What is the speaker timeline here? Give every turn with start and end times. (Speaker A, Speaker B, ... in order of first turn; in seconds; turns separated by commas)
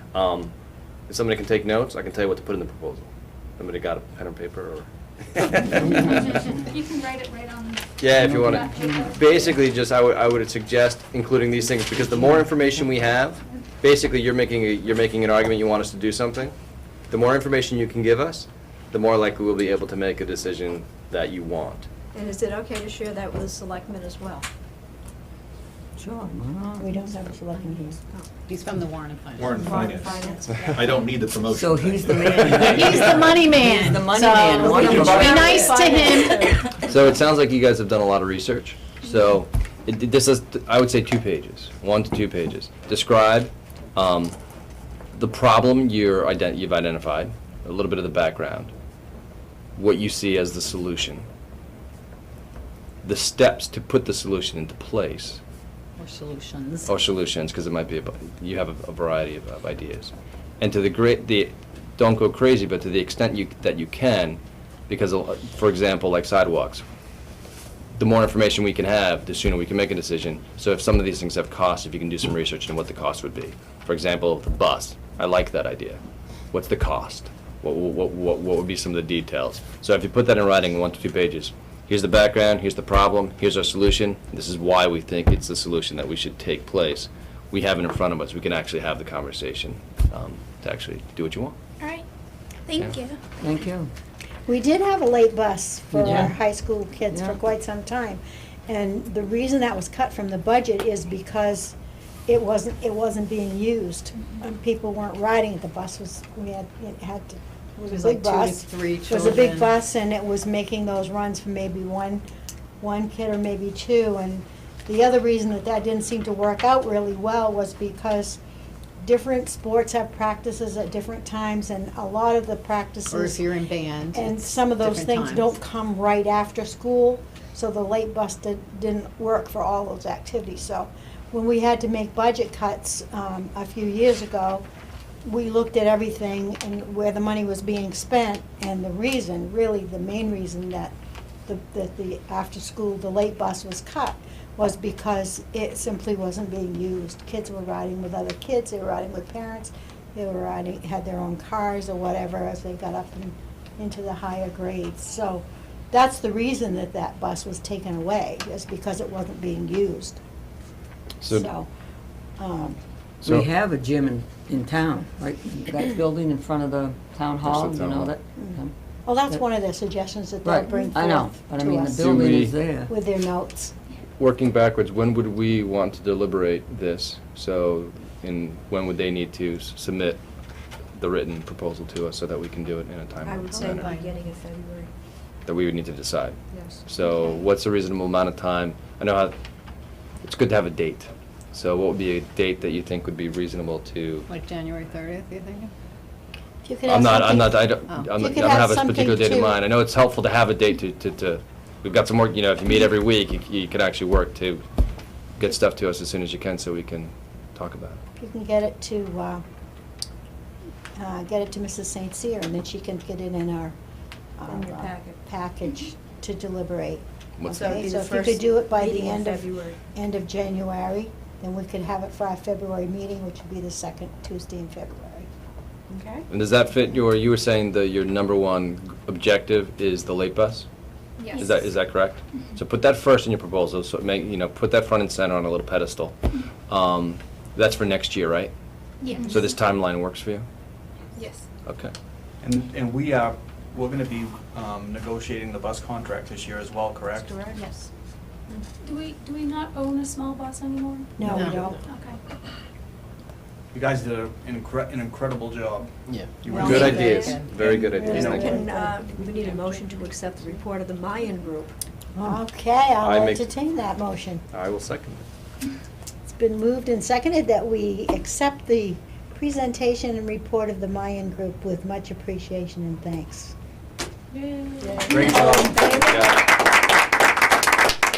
Speaker A: 0.1-0.5, Speaker A: 1.1-6.5, Speaker B: 6.1-9.5, Speaker A: 8.0-16.6, Speaker C: 8.2-9.5, Speaker A: 17.1-21.9, Speaker D: 22.1-24.5, Speaker C: 26.0-26.9, Speaker E: 26.8-28.0, Speaker F: 28.5-30.1, Speaker G: 29.4-30.1, Speaker D: 29.5-31.0, Speaker G: 30.6-33.0, Speaker C: 31.5-35.8, Speaker F: 32.2-36.6, Speaker D: 34.5-36.7, Speaker A: 36.8-44.4, Speaker A: 45.2-48.7, Speaker A: 49.8-51.3, Speaker A: 53.0-55.4, Speaker A: 56.9-66.8, Speaker A: 68.0-76.0, Speaker A: 76.5-91.6, Speaker C: 93.4-93.9, Speaker E: 94.5-101.8, Speaker C: 95.9-96.4, Speaker E: 102.3-112.2, Speaker F: 107.9-109.7, Speaker E: 112.8-118.4, Speaker E: 119.0-123.4, Speaker F: 123.1-125.5, Speaker E: 124.1-134.7, Speaker E: 135.2-141.0, Speaker E: 141.5-160.2, Speaker A: 161.2-161.5, Speaker E: 161.3-161.7, Speaker E: 162.4-162.8, Speaker C: 163.2-168.7, Speaker A: 167.4-168.1, Speaker E: 168.4-172.3, Speaker C: 170.4-172.9, Speaker A: 172.0-172.5, Speaker E: 172.9-173.7, Speaker A: 174.2-180.2, Speaker A: 180.9-183.9, Speaker D: 183.2-184.9, Speaker F: 183.7-184.1, Speaker A: 185.5-189.3, Speaker D: 186.5-186.8, Speaker A: 190.2-194.3, Speaker F: 194.3-195.7, Speaker E: 196.6-199.6, Speaker A: 196.9-204.7, Speaker A: 205.4-208.0, Speaker E: 208.2-209.4, Speaker E: 211.0-213.8, Speaker E: 214.4-225.3, Speaker D: 214.5-215.2, Speaker A: 217.4-217.7, Speaker D: 217.5-219.8, Speaker D: 225.9-226.2, Speaker A: 226.3-230.7, Speaker A: 231.3-236.2, Speaker A: 236.7-238.5, Speaker B: 239.0-239.4, Speaker A: 239.2-240.5, Speaker A: 241.7-241.9, Speaker H: 242.4-247.4, Speaker D: 247.1-247.9, Speaker B: 248.8-252.2, Speaker E: 251.2-251.8, Speaker F: 251.3-251.6, Speaker H: 253.7-257.0, Speaker A: 256.5-258.6, Speaker E: 256.5-259.1, Speaker D: 256.5-257.5, Speaker F: 256.8-257.5, Speaker H: 257.6-258.6, Speaker D: 258.0-261.7, Speaker E: 262.2-264.4, Speaker A: 263.0-263.4, Speaker A: 264.5-265.2, Speaker E: 266.3-273.6, Speaker D: 274.4-276.3, Speaker E: 274.8-276.1, Speaker H: 275.1-275.8, Speaker A: 275.9-276.4